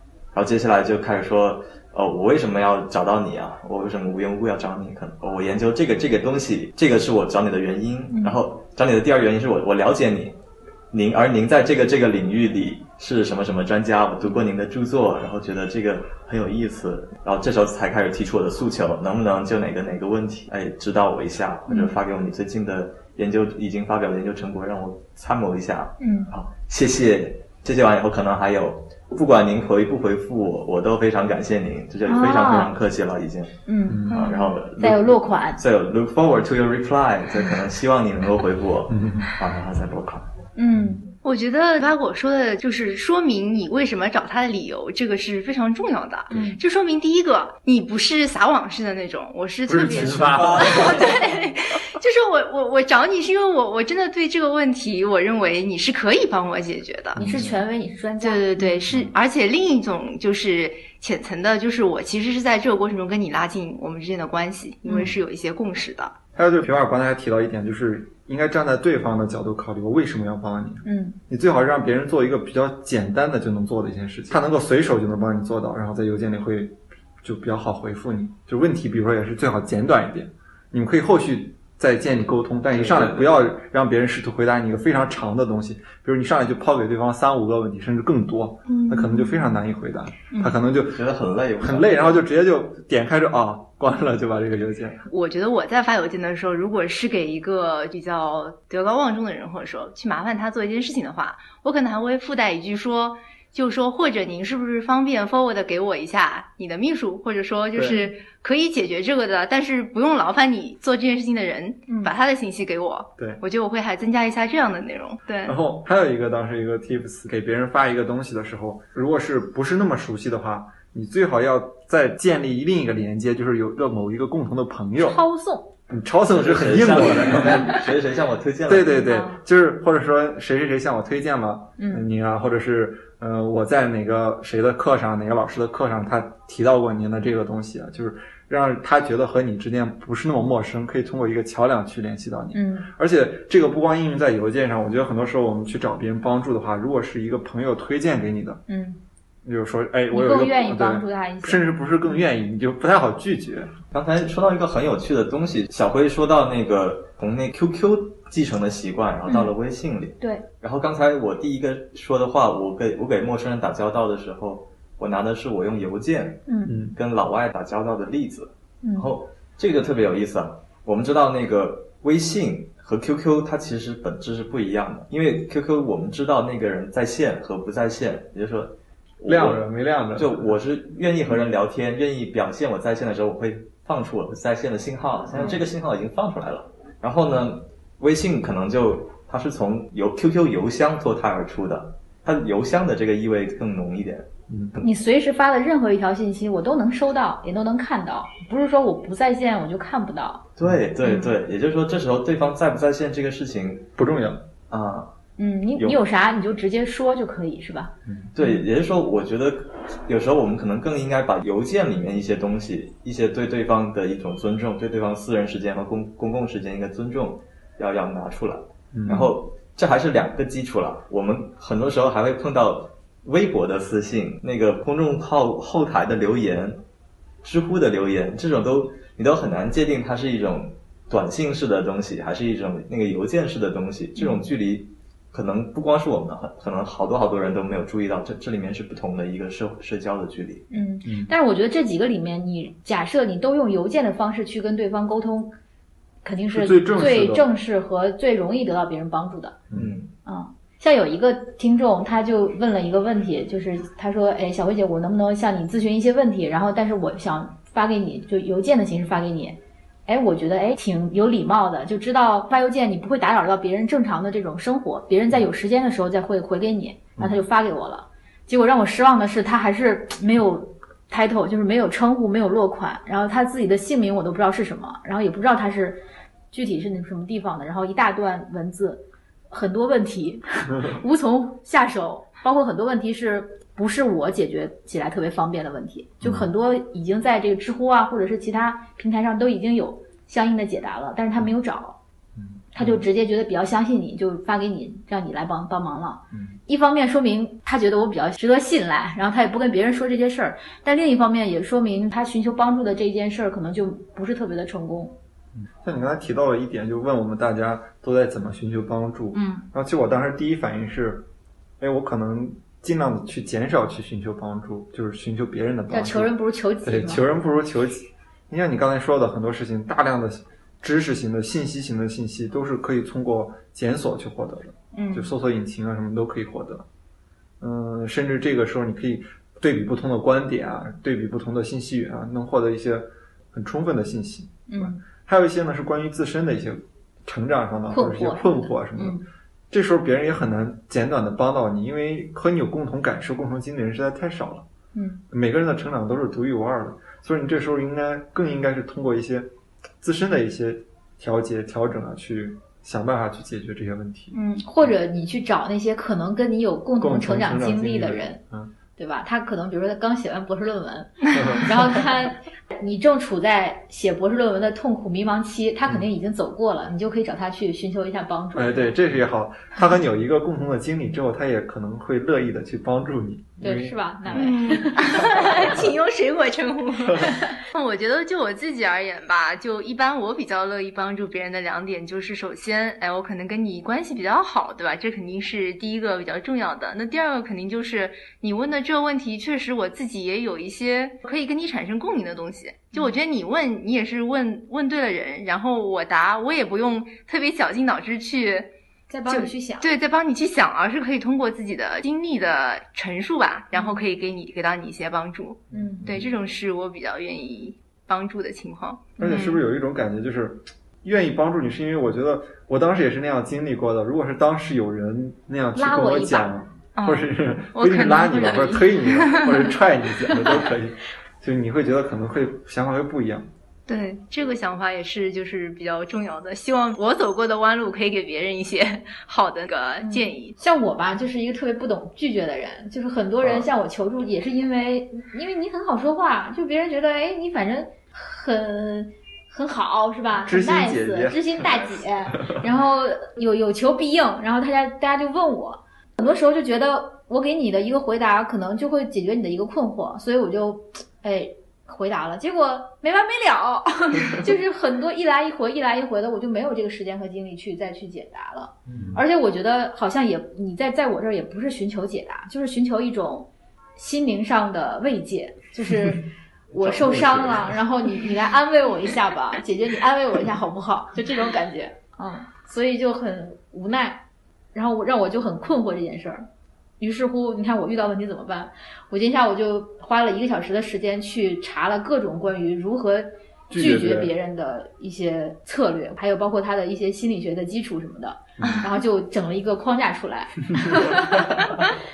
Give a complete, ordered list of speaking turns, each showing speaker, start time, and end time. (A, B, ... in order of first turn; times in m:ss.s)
0:00.3-0:10.4 A
0:08.1-0:08.4 B
0:10.9-0:33.5 A
0:21.7-0:21.9 B
0:26.0-0:26.3 B
0:32.0-0:32.7 B
0:33.6-0:35.6 B
0:33.9-0:34.2 C
0:34.1-0:40.3 A
0:34.2-0:34.4 D
0:38.9-0:39.3 C
0:40.6-0:41.0 B
0:41.2-0:57.2 D
0:46.3-0:46.6 B
0:49.7-0:51.0 C
0:50.1-0:51.1 A
0:57.2-0:57.6 C
0:57.2-0:58.8 B
0:58.2-1:06.1 D
1:04.9-1:05.1 B
1:06.4-1:31.0 C
1:10.8-1:11.2 B
1:22.7-1:23.5 A
1:28.7-1:29.4 D
1:30.8-1:32.2 A
1:31.6-1:35.0 C
1:35.1-1:55.5 D
1:47.7-1:48.0 C
1:47.9-1:48.1 B
1:51.9-1:52.1 B
1:55.4-2:05.2 C
2:05.0-2:05.7 B
2:05.9-2:07.8 C
2:06.3-2:09.2 A
2:08.6-2:28.6 C
2:09.1-2:09.4 B
2:11.8-2:12.0 B
2:22.5-2:22.9 B
2:28.7-2:29.0 B
2:29.4-2:33.7 C
2:30.1-2:32.1 B
2:33.9-2:59.6 A
2:46.5-2:46.8 B
2:46.6-2:47.0 C
2:48.8-2:49.1 B
2:59.2-3:00.6 C
3:00.2-3:14.9 A
3:05.3-3:05.6 C
3:14.5-3:14.7 C
3:14.8-3:20.4 B
3:20.6-3:23.9 A
3:21.0-3:21.3 B
3:24.0-3:24.4 C
3:24.7-3:25.1 A
3:25.4-3:28.6 B
3:28.0-3:28.3 C
3:28.3-3:46.8 A
3:38.9-3:39.3 C
3:47.4-4:00.7 A
3:54.2-3:54.4 B
4:00.7-4:05.5 B
4:01.0-4:01.3 C
4:06.2-4:09.6 B
4:06.5-4:07.4 C
4:09.7-4:10.1 A
4:10.2-4:52.0 B
4:46.2-4:46.5 C
4:52.4-4:53.0 C
4:52.7-5:05.1 B
4:56.3-4:56.6 C
5:05.5-5:11.2 C
5:09.3-5:09.6 B
5:11.8-5:16.3 C
5:15.9-5:17.2 B
5:16.8-5:26.8 C
5:24.9-5:25.3 B
5:27.6-5:39.2 C
5:34.7-5:35.0 B
5:37.9-5:39.2 B
5:39.7-5:44.6 C
5:44.9-5:45.2 B
5:45.3-5:49.5 C
5:50.0-5:54.9 C
5:54.3-5:58.4 B
5:57.0-5:58.7 C
5:59.0-6:09.0 B
6:01.3-6:02.0 C
6:08.5-6:14.6 C
6:13.6-6:15.6 B
6:14.3-6:38.7 D
6:15.2-6:15.8 C
6:39.1-6:39.9 B
6:39.3-6:49.6 D
6:43.7-6:44.0 B
6:45.7-6:46.1 B
6:45.7-6:46.3 C
6:49.2-6:49.5 B
6:49.2-7:03.5 C
6:55.7-6:56.5 B
6:57.0-6:59.7 D
7:03.9-7:10.6 D
7:10.0-7:54.2 B
7:13.4-7:13.7 C
7:20.4-7:22.7 C
7:38.9-7:39.2 C
7:46.8-7:47.7 A
7:54.7-7:56.4 B
7:57.0-8:11.9 B
8:03.7-8:04.3 C
8:08.6-8:08.8 C
8:10.8-8:11.1 C